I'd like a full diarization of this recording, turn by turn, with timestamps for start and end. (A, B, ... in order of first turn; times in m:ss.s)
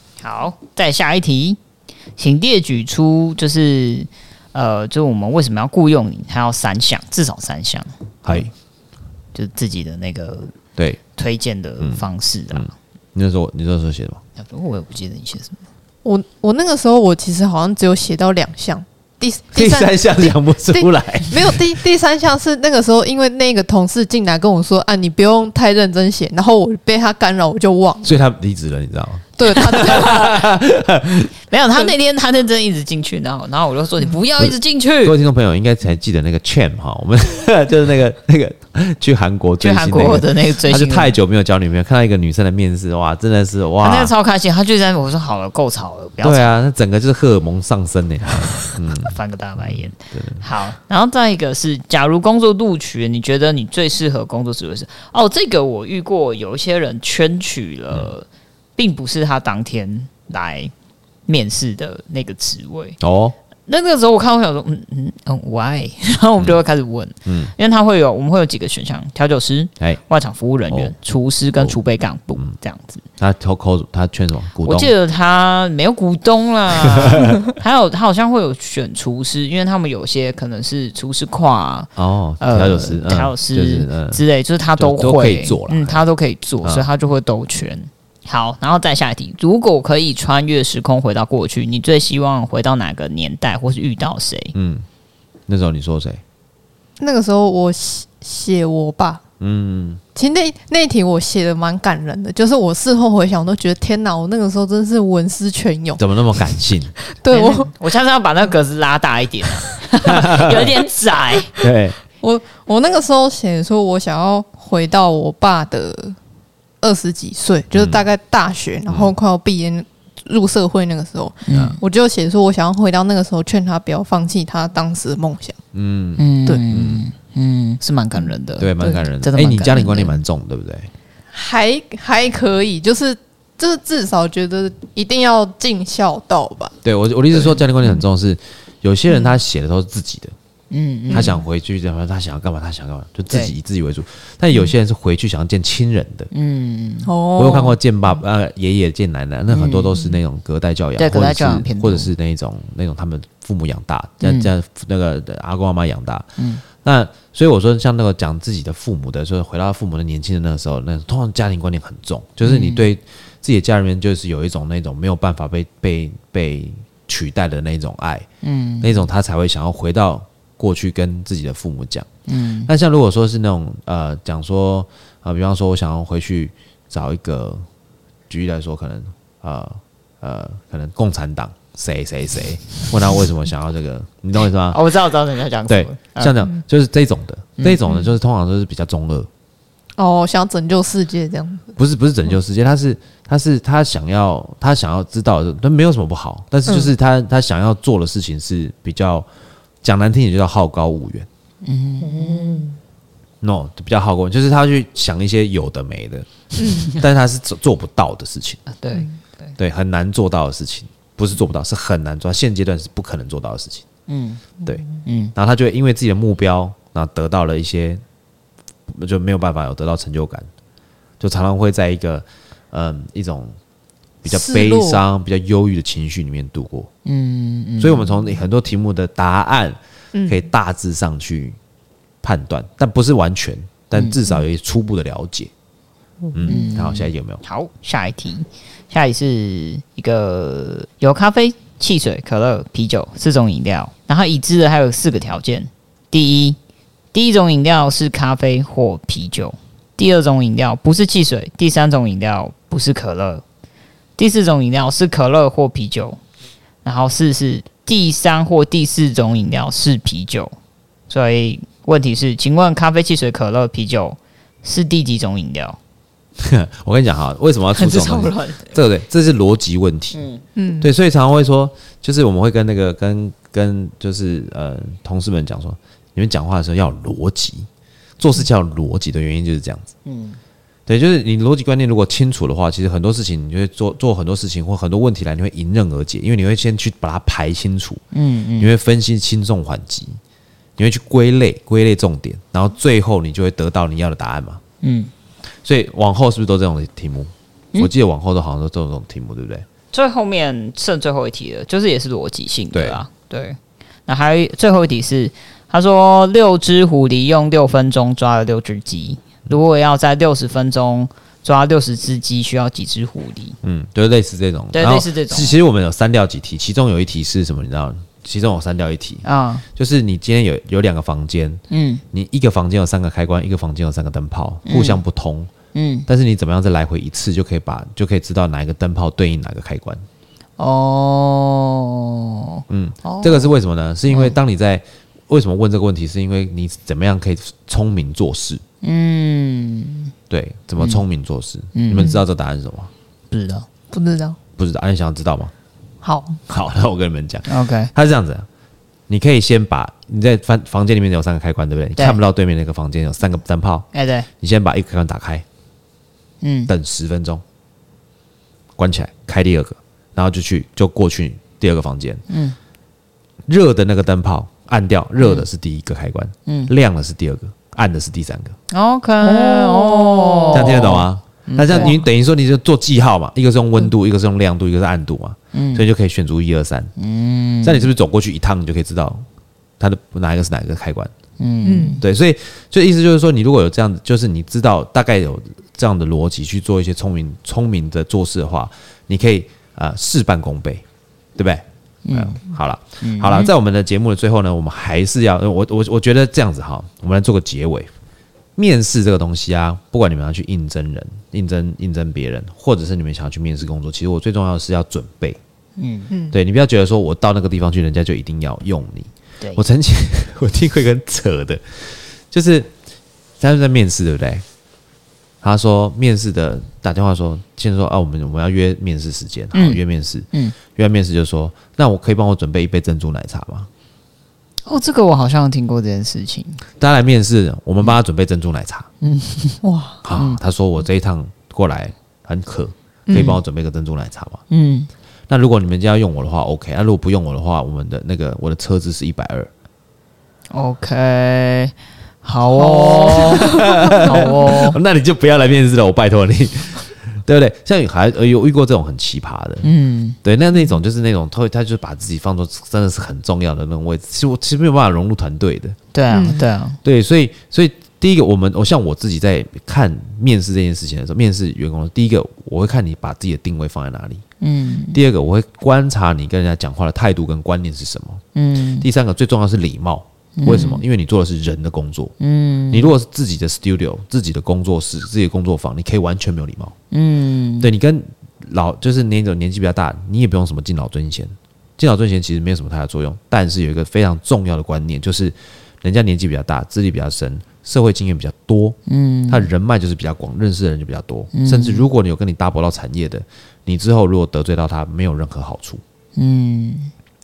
0:00.2-0:01.6 A
0:02.2-0:08.5 A
0:08.2-0:08.5 B
0:09.3-0:10.5 A
0:11.2-0:12.7 A
0:11.8-0:14.2 B
0:14.4-0:15.6 A
0:16.0-0:28.2 C
0:19.5-0:21.8 B
0:28.0-0:31.3 B
0:29.4-0:30.4 C
0:29.7-0:30.3 A
0:31.5-0:35.2 A
0:34.4-0:44.1 B
0:39.6-0:41.2 A
0:43.8-0:46.6 A
0:46.2-0:50.4 B
0:49.0-0:58.3 A
0:58.8-1:00.7 A
1:01.3-1:03.0 A
1:03.0-1:03.4 B
1:03.7-1:13.0 A
1:07.3-1:07.5 B
1:13.2-1:14.9 B
1:14.6-1:21.9 A
1:16.8-1:17.4 B
1:22.0-1:24.2 B
1:22.4-1:34.6 A
1:24.8-1:26.0 B
1:34.6-1:34.9 B
1:35.5-1:36.2 B
1:37.0-1:39.2 C
1:39.4-1:40.0 B
1:40.2-1:46.4 C
1:46.0-1:47.0 B
1:47.1-1:47.7 C
1:47.3-1:51.5 A
1:50.0-1:50.8 B
1:51.6-1:56.2 C
1:51.6-1:52.0 B
1:56.8-2:05.6 C
1:57.7-1:58.0 B
2:01.4-2:01.8 A
2:05.7-2:07.0 B
2:06.2-2:10.2 A
2:08.6-2:10.9 B
2:08.8-2:09.0 C
2:11.3-2:16.8 C
2:16.8-2:20.3 B
2:19.1-2:19.4 C
2:20.7-2:21.3 A
2:21.1-2:21.4 C
2:21.1-2:26.3 B
2:26.3-2:27.1 A
2:27.1-2:28.2 C
2:27.4-2:48.3 B
2:29.5-2:30.0 A
2:31.0-2:32.1 A
2:34.2-2:34.5 A
2:36.4-2:36.6 A
2:42.4-2:42.9 A
2:48.4-2:49.0 A
2:48.8-2:52.1 B
2:52.3-2:52.7 A
2:52.7-2:57.6 B
2:58.3-3:04.8 B
3:04.7-3:06.5 A
3:05.7-3:09.3 B
3:10.0-3:11.8 C
3:11.8-3:19.3 B
3:19.8-3:21.3 B
3:21.6-3:22.6 A
3:22.0-3:22.8 C
3:23.4-3:28.6 B
3:26.6-3:26.9 C
3:28.8-3:29.5 A
3:29.6-3:33.9 B
3:34.1-3:34.4 A
3:34.6-3:35.0 C
3:35.0-3:35.3 A
3:35.4-3:38.0 B
3:38.9-3:40.5 B
3:41.2-3:43.5 B
3:44.2-3:46.9 B
3:44.3-3:45.0 C
3:47.0-3:48.3 A
3:47.8-3:51.6 B
3:50.1-3:50.5 C
3:52.2-3:55.5 B
3:56.3-3:56.7 C
3:56.3-3:57.4 B
3:56.5-4:06.6 A
4:07.1-4:13.4 A
4:14.2-4:16.2 A
4:16.8-4:20.5 A
4:21.1-4:25.8 A
4:26.4-4:30.2 B
4:27.8-4:28.7 A
4:30.1-4:30.4 A
4:30.6-4:30.9 C
4:30.8-4:37.7 B
4:38.2-4:39.9 B
4:40.0-4:40.4 A
4:40.9-4:48.0 B
4:48.1-4:48.7 A
4:48.6-4:50.2 B
4:50.8-4:54.6 B
4:54.8-4:55.1 A
4:55.6-4:59.7 B
4:59.9-5:13.6 A
5:02.7-5:03.0 B
5:13.6-5:19.2 B
5:14.7-5:15.6 A
5:19.2-5:19.6 A
5:19.8-5:25.5 B
5:21.7-5:22.0 A
5:24.6-5:25.0 A
5:25.7-5:26.1 A
5:26.1-5:30.0 B
5:30.6-5:33.5 A
5:32.7-5:38.6 B
5:38.8-5:40.1 A
5:40.3-5:42.9 B
5:41.8-5:42.1 A
5:41.9-5:42.2 C
5:43.3-5:43.7 A
5:43.9-5:44.4 C
5:44.6-5:45.5 B
5:46.0-5:46.4 C
5:46.5-5:48.5 B
5:47.5-5:47.9 A
5:49.1-5:53.9 B
5:53.9-5:54.3 A
5:54.4-5:55.4 B
5:56.4-5:56.7 A
5:56.7-5:57.4 B
5:58.8-6:02.2 B
6:02.3-6:02.6 A
6:03.5-6:08.6 B
6:08.7-6:12.0 A
6:09.2-6:10.9 C
6:10.5-6:16.9 B
6:15.5-6:15.8 A
6:17.0-6:17.9 A
6:17.6-6:19.2 B
6:19.8-6:21.1 B
6:21.4-6:22.0 A
6:21.6-6:22.0 C
6:22.0-6:30.8 B
6:31.4-6:37.9 B
6:32.0-6:32.4 A
6:33.0-6:33.5 A
6:38.6-6:45.4 B
6:45.8-6:46.1 A
6:46.1-6:46.4 C
6:46.3-6:52.7 B
6:53.4-6:54.4 B
6:55.4-7:03.7 B
6:59.5-6:59.8 A
7:04.7-7:06.6 A
7:06.8-7:08.9 B
7:09.0-7:09.6 A
7:09.6-7:10.0 C
7:10.0-7:14.4 B
7:10.1-7:10.4 A
7:13.1-7:13.4 C
7:14.5-7:14.9 A
7:15.3-7:19.5 B
7:20.5-7:24.8 A
7:22.5-7:24.3 C
7:23.2-7:29.7 B
7:29.6-7:30.2 A
7:30.2-7:35.8 B
7:35.9-7:36.8 A
7:36.1-7:36.4 C
7:36.8-7:44.2 B
7:44.4-7:45.0 A
7:44.9-7:48.2 B
7:48.4-7:48.9 A
7:48.8-7:52.1 B
7:50.4-7:50.8 A
7:52.2-7:52.9 A
7:52.7-7:56.7 B
7:56.9-7:57.7 A
7:57.6-8:08.8 B
8:08.9-8:09.5 A
8:09.3-8:15.8 B
8:11.3-8:11.8 A
8:16.2-8:16.9 A